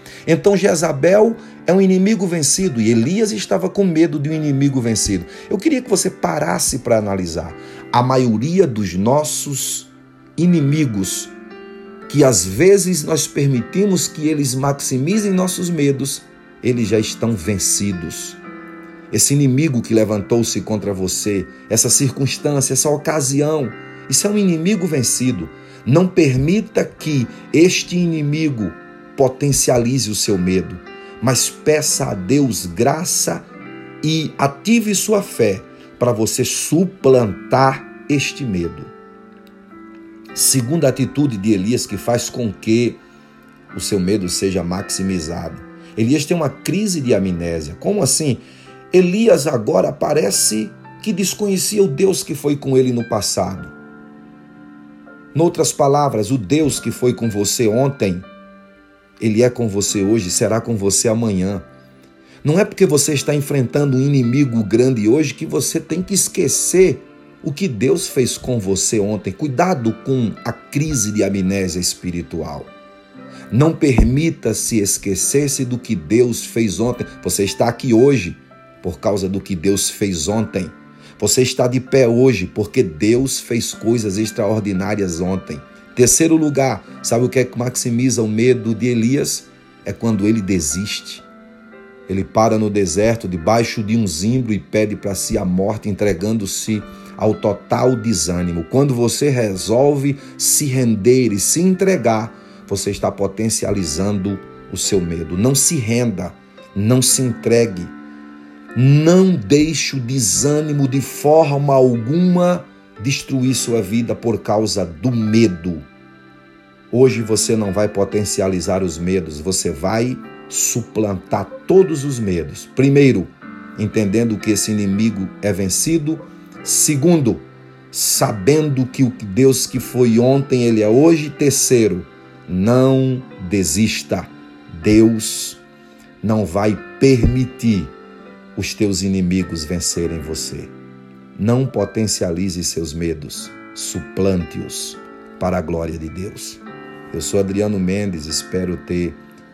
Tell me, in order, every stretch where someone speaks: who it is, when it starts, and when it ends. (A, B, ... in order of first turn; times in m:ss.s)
0:00.2-0:11.3 A
0:12.1-0:18.4 A
0:19.1-0:33.4 A
0:34.0-0:38.9 A
0:40.3-0:43.0 A
0:43.7-0:53.7 A
0:55.3-0:58.2 A
0:59.2-1:01.7 A
1:02.4-1:12.7 A
1:13.5-1:31.2 A
1:32.1-1:47.9 A
1:48.7-1:55.8 A
1:56.9-2:15.6 A
2:16.2-2:17.9 A
2:18.6-2:20.7 A
2:21.4-2:29.2 A